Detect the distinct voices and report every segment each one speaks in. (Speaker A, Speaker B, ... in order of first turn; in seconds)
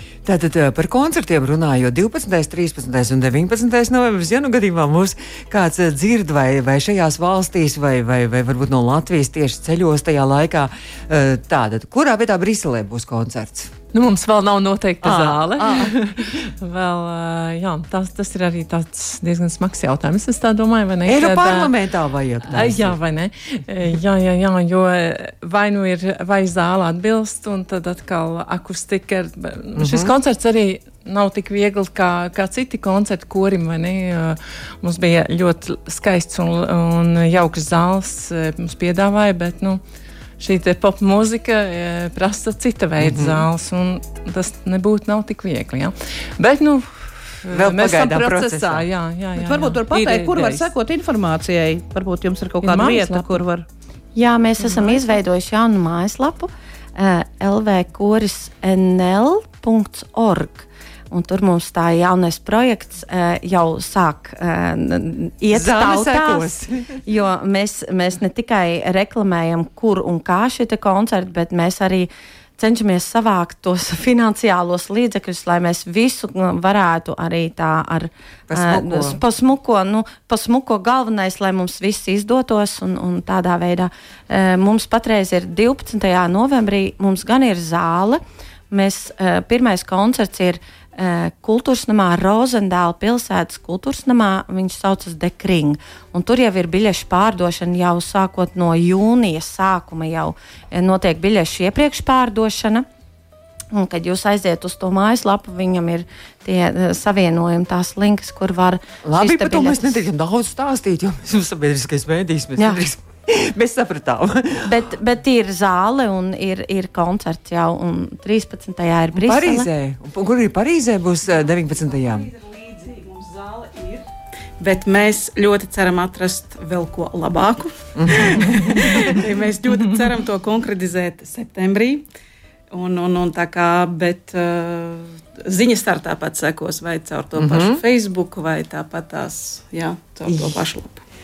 Speaker A: 0.2-13.7, 15.0-16.4, 21.0-23.0, 29.8-30.1, 43.0-43.4, 47.5-48.9, 65.5-67.0, 78.5-79.2, 109.0-114.8, 119.1-122.3, 128.0-128.9, 137.3-137.8, 140.2-140.6
Speaker B: 13.9-21.7, 22.5-39.8, 40.4-50.7, 52.6-53.4, 54.6-55.2
Speaker C: 49.4-53.6
Speaker D: 54.1-102.8, 103.7-110.0, 112.6-112.8, 114.6-119.7
Speaker E: 122.0-124.0, 124.6-132.0, 132.7-141.0